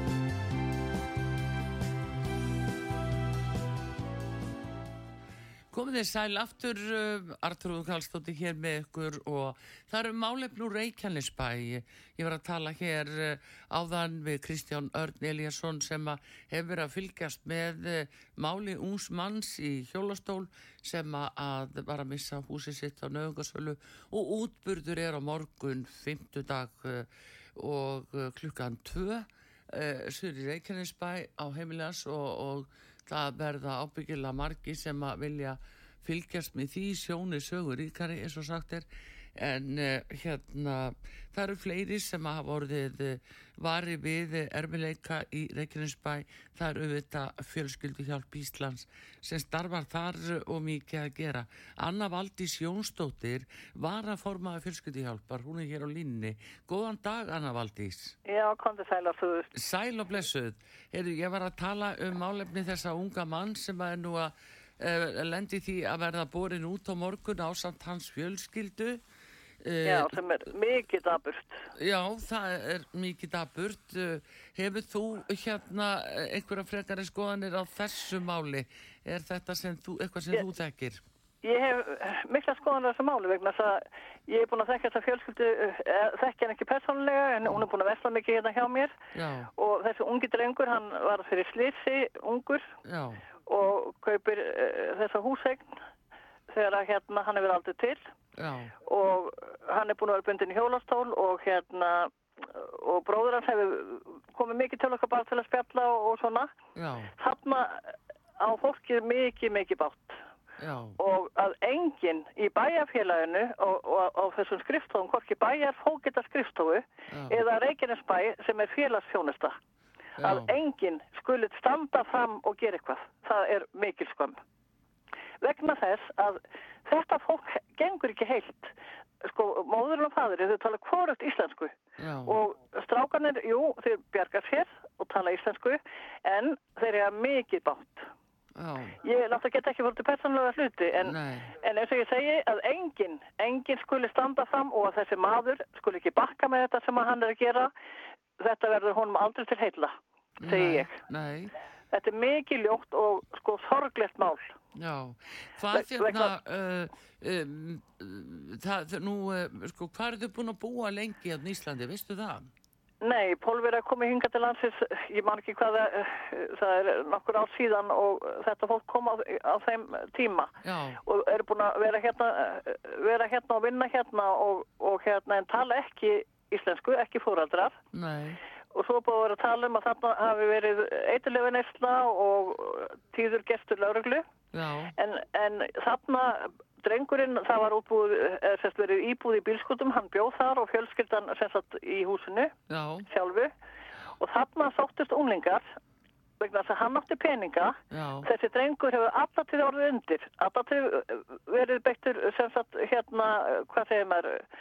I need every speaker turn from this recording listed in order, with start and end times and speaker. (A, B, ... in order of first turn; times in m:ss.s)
0:05.7-0:58.2 A
0:58.3-0:59.5 B
0:59.5-1:09.0 A
1:09.6-1:10.2 A
1:09.8-1:11.7 B
1:11.8-1:21.0 A
1:21.4-1:29.0 B
1:29.1-1:29.5 A
1:29.6-1:32.7 B
1:32.8-1:33.2 A
1:33.5-1:35.7 B
1:36.5-1:38.1 B
1:38.4-1:38.7 A
1:38.8-1:46.5 B
1:46.8-1:47.1 A
1:47.2-1:50.2 B
1:50.6-1:51.0 A
1:51.0-1:59.6 B
1:57.1-1:57.4 A
2:00.2-2:00.5 A
2:00.2-2:04.4 B
2:05.4-2:11.8 B
2:12.0-2:12.4 A
2:12.3-2:18.1 B
2:18.6-2:19.0 A
2:19.0-2:27.7 B
2:21.0-2:21.5 A
2:28.4-2:30.0 B
2:30.4-2:31.5 A
2:30.5-2:31.0 B
2:31.9-2:34.6 B
2:34.8-2:42.5 A
2:35.7-2:36.3 B
2:43.0-2:50.5 B
2:50.6-2:51.0 A
2:51.0-2:57.8 B
2:57.9-2:58.4 A
2:58.7-3:04.2 B
3:04.5-3:04.9 A
3:05.0-3:12.6 B
3:12.7-3:13.1 A
3:13.1-3:13.5 B
3:14.2-3:15.6 B
3:16.4-3:24.4 B
3:17.9-3:18.3 A